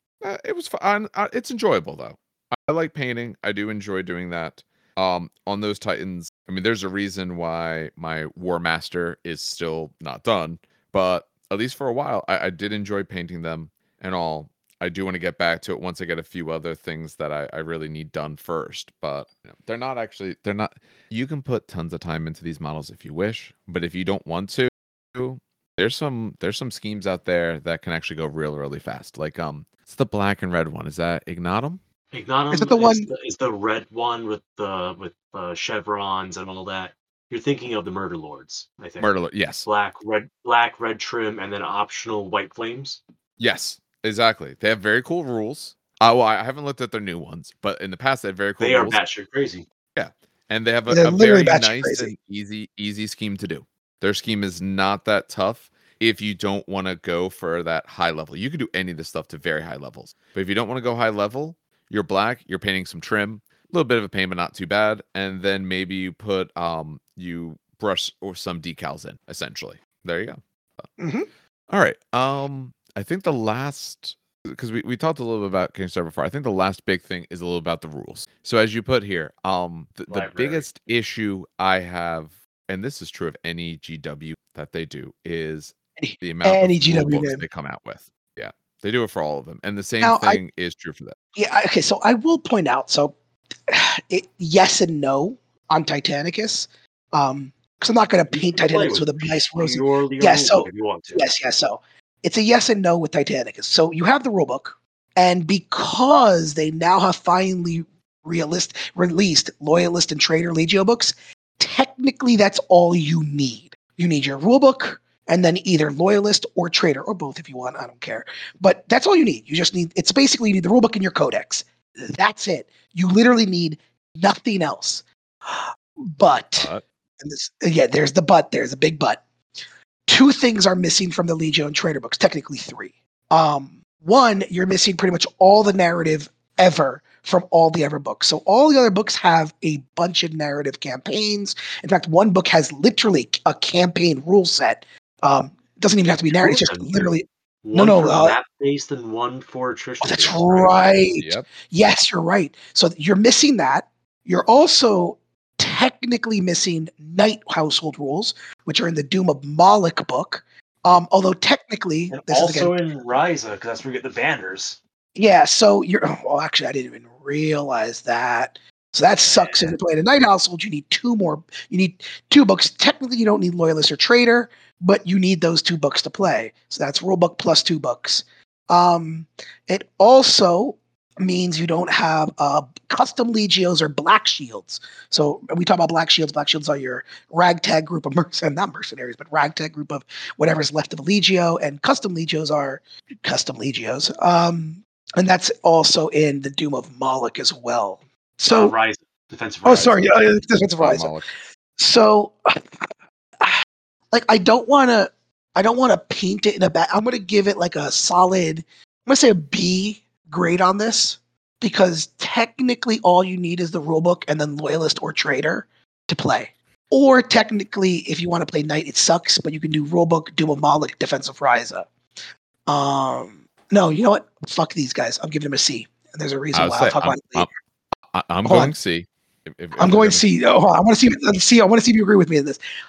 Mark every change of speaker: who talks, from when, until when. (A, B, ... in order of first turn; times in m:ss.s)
0:00.2-0:31.8 A
0:32.1-0:39.1 B
0:32.5-0:33.1 C
0:39.0-0:39.7 A
0:39.6-0:43.0 B
0:43.4-0:49.0 A
0:48.6-0:49.7 B
0:50.0-1:10.9 A
0:50.9-0:52.1 C
1:11.0-1:11.3 C
1:11.7-1:31.2 A
1:20.1-1:20.7 B
1:26.0-1:27.4 C
1:30.0-1:30.4 C
1:31.4-1:33.2 C
1:33.7-2:09.2 C
1:38.3-1:41.3 B
2:10.1-2:28.4 C
2:26.3-2:27.1 B
2:27.6-2:31.0 B
2:30.0-2:42.7 C
2:31.2-2:31.5 A
2:42.1-2:44.8 B
2:45.2-3:18.8 C
2:49.2-2:49.8 B
3:18.5-3:20.3 B
3:19.6-3:21.1 C
3:20.8-3:21.3 A
3:21.8-3:23.6 C
3:24.1-3:41.9 C
3:42.7-3:47.5 C
3:46.5-3:47.5 A
3:48.1-3:50.2 A
3:48.4-3:48.8 C
3:49.8-3:52.6 C